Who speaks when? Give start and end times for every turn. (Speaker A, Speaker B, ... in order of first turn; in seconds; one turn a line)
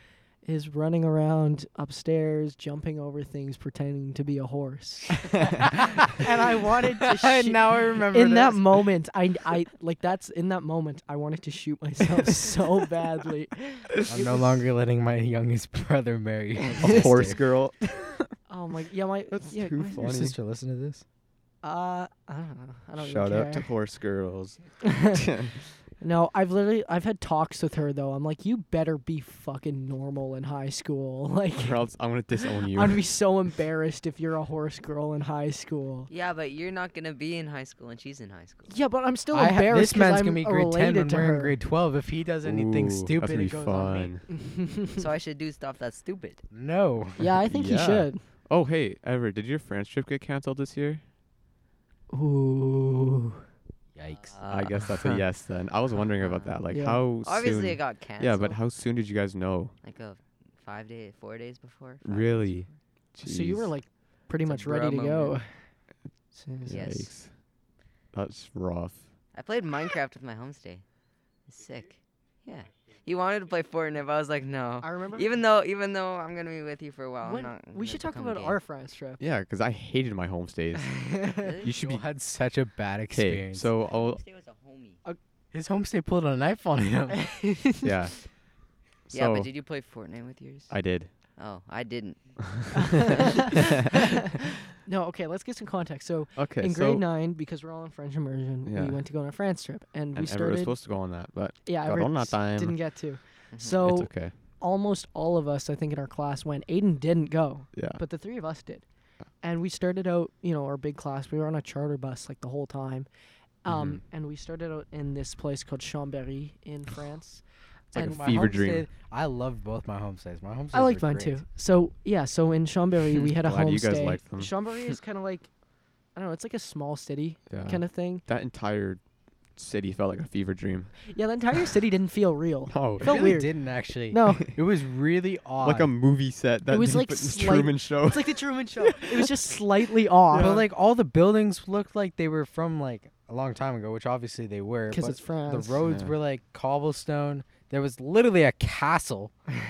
Speaker A: 0.4-14.6
Speaker B: 5.6-6.3
Speaker B: 7.0-8.9
Speaker B: 14.1-17.4
Speaker A: 16.7-17.1
Speaker C: 16.8-18.3
Speaker A: 18.5-20.2
Speaker C: 19.3-20.4
Speaker B: 19.9-21.0
Speaker A: 21.6-23.7
Speaker C: 23.0-25.6
Speaker A: 24.8-25.2
Speaker A: 26.0-31.8
Speaker C: 31.6-33.1
Speaker A: 32.6-36.1
Speaker D: 36.1-38.7
Speaker A: 38.7-41.5
Speaker B: 39.3-44.1
Speaker C: 42.4-44.2
Speaker A: 44.3-45.0
Speaker D: 44.9-46.4
Speaker B: 46.5-47.3
Speaker A: 47.2-48.2
Speaker C: 47.5-51.0
Speaker A: 52.1-53.4
Speaker B: 53.9-55.2
Speaker D: 54.2-54.9
Speaker C: 54.5-59.8
Speaker D: 56.2-56.6
Speaker A: 56.7-57.0
Speaker D: 57.2-58.6
Speaker D: 59.8-62.7
Speaker C: 62.0-63.7
Speaker A: 63.2-65.6
Speaker D: 64.5-65.3
Speaker A: 66.3-66.8
Speaker C: 66.6-67.4
Speaker D: 66.7-67.1
Speaker C: 68.1-69.1
Speaker D: 69.3-70.8
Speaker D: 71.5-78.6
Speaker A: 74.8-75.3
Speaker A: 77.2-79.2
Speaker C: 79.2-82.0
Speaker A: 80.9-81.5
Speaker D: 81.4-81.7
Speaker B: 81.7-83.7
Speaker C: 83.1-84.2
Speaker D: 83.8-85.0
Speaker B: 85.5-87.3
Speaker A: 87.1-87.9
Speaker C: 87.8-88.3
Speaker C: 89.1-89.5
Speaker D: 89.1-90.8
Speaker C: 90.7-91.1
Speaker D: 91.4-93.4
Speaker C: 92.6-93.6
Speaker A: 92.8-94.1
Speaker A: 94.8-100.8
Speaker C: 96.3-97.0
Speaker C: 98.6-99.0
Speaker C: 100.1-102.8
Speaker A: 101.6-108.8
Speaker C: 103.7-104.3
Speaker C: 107.7-108.0
Speaker A: 109.4-113.1
Speaker A: 113.6-118.5
Speaker C: 113.7-114.0
Speaker C: 117.9-118.9
Speaker B: 118.0-121.4
Speaker A: 120.7-125.5
Speaker C: 123.3-124.5
Speaker A: 126.1-128.2
Speaker C: 127.5-129.0
Speaker C: 129.5-131.1
Speaker A: 131.1-134.5
Speaker C: 132.7-133.3
Speaker B: 133.0-135.9
Speaker C: 135.6-139.1
Speaker A: 136.7-140.7
Speaker C: 140.3-140.6
Speaker B: 140.3-149.3
Speaker A: 144.9-145.8
Speaker C: 145.8-146.1